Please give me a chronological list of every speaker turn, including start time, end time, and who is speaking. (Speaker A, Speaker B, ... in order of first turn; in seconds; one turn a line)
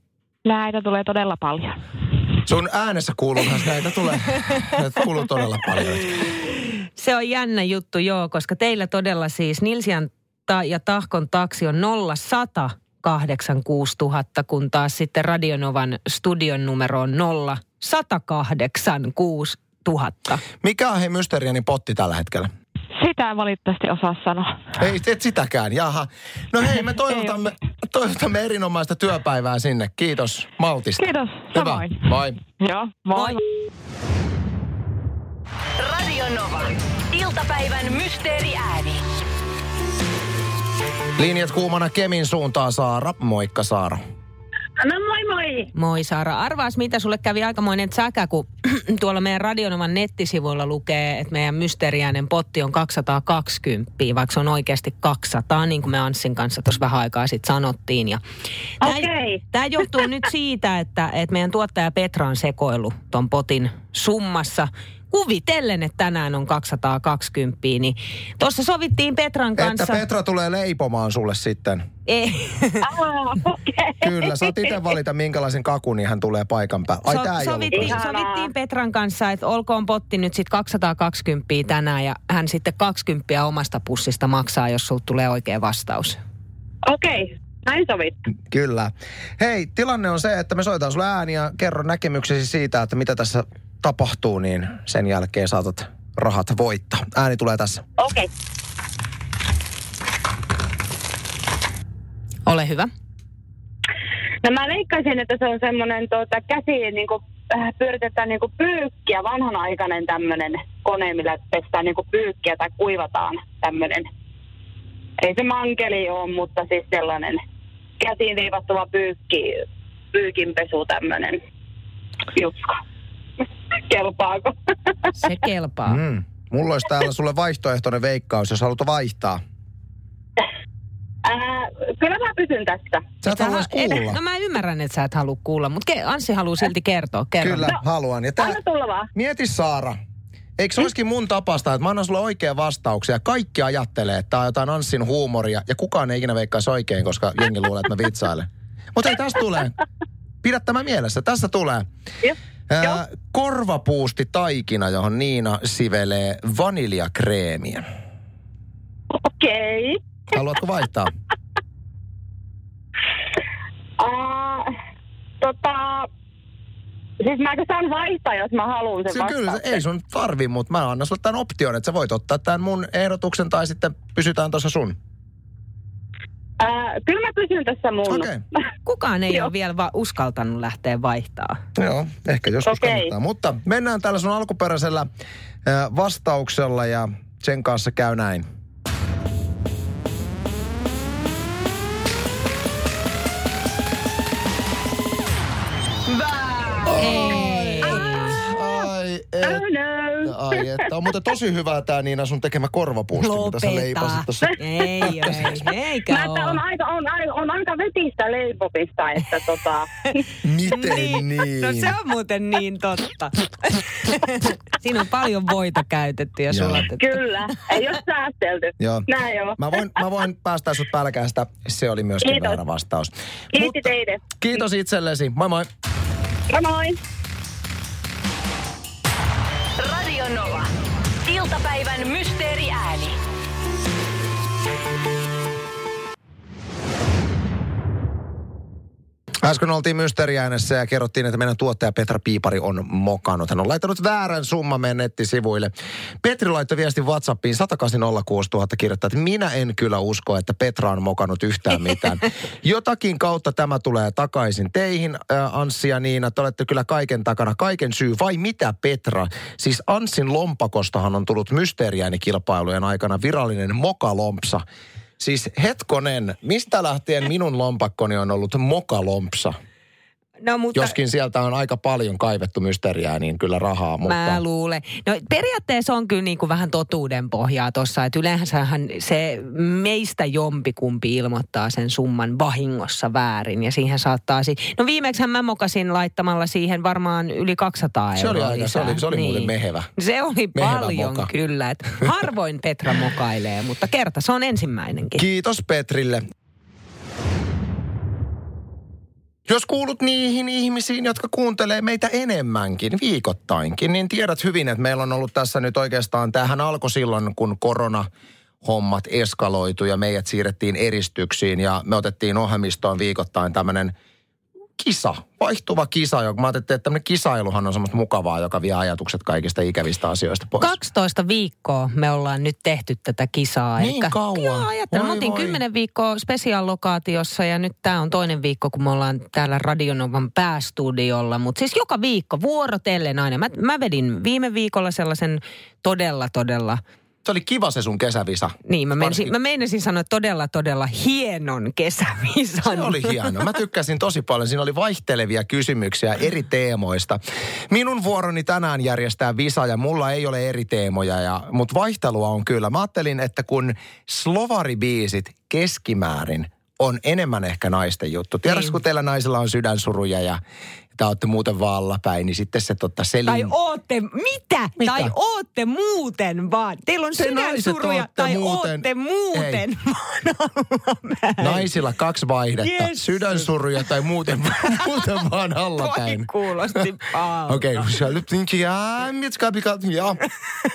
Speaker A: 0.5-1.8
Speaker B: 2.5-6.2
Speaker C: 7.0-20.4
Speaker B: 20.6-22.5
Speaker A: 23.0-24.7
Speaker B: 24.8-32.4
Speaker A: 31.0-33.4
Speaker D: 35.8-39.0
Speaker B: 41.2-44.0
Speaker E: 44.8-45.7
Speaker C: 45.8-58.2
Speaker C: 58.8-70.0
Speaker E: 58.8-59.4
Speaker B: 69.6-71.9
Speaker C: 72.1-72.9
Speaker E: 72.8-74.8
Speaker B: 74.0-78.0
Speaker C: 77.1-86.2
Speaker E: 77.7-78.5
Speaker E: 86.9-88.2
Speaker B: 88.5-97.8
Speaker E: 98.0-98.3
Speaker C: 102.5-102.9
Speaker E: 104.4-114.1
Speaker E: 115.2-117.4
Speaker E: 118.0-121.4
Speaker E: 122.3-122.8
Speaker E: 123.9-124.5
Speaker C: 125.2-126.0
Speaker B: 125.9-129.4
Speaker E: 131.2-133.1
Speaker B: 133.2-134.2
Speaker C: 133.3-137.8
Speaker B: 137.4-138.6
Speaker E: 138.4-139.1
Speaker B: 139.1-140.0
Speaker B: 140.6-149.8
Speaker B: 150.4-151.9
Speaker B: 152.7-157.9
Speaker E: 159.1-160.0
Speaker B: 160.3-161.1
Speaker E: 164.0-164.7
Speaker E: 165.4-166.1
Speaker E: 167.2-169.8
Speaker B: 169.1-175.0
Speaker E: 176.6-178.3
Speaker B: 178.1-178.4
Speaker C: 178.9-181.6
Speaker B: 181.8-185.1
Speaker E: 182.7-183.1
Speaker B: 185.7-188.5
Speaker B: 196.8-199.7
Speaker C: 197.0-198.4
Speaker E: 197.9-198.8
Speaker E: 199.4-200.6
Speaker B: 200.2-205.6
Speaker C: 203.2-206.6
Speaker E: 206.1-210.2
Speaker B: 210.4-211.9
Speaker C: 210.7-217.2
Speaker B: 216.5-216.9
Speaker E: 217.0-219.8
Speaker B: 218.8-225.7
Speaker E: 222.2-222.6
Speaker E: 223.5-224.3
Speaker E: 226.5-227.0
Speaker D: 229.8-230.7
Speaker D: 231.2-233.2
Speaker B: 239.4-264.6
Speaker B: 265.2-269.6
Speaker C: 270.4-270.9
Speaker B: 270.7-274.4
Speaker C: 274.1-295.2
Speaker B: 288.2-289.9
Speaker B: 290.6-291.3
Speaker B: 295.2-296.2
Speaker B: 299.5-308.1
Speaker B: 308.6-313.9
Speaker B: 314.8-320.8
Speaker C: 320.6-336.8
Speaker B: 323.8-325.6
Speaker B: 337.2-339.3
Speaker C: 338.7-343.3
Speaker B: 342.6-360.4
Speaker C: 358.5-358.8
Speaker B: 360.9-363.5
Speaker C: 363.3-371.7
Speaker B: 364.8-365.1
Speaker B: 367.1-369.6
Speaker B: 371.4-376.8
Speaker C: 372.6-373.5
Speaker C: 375.8-377.9
Speaker B: 377.5-380.2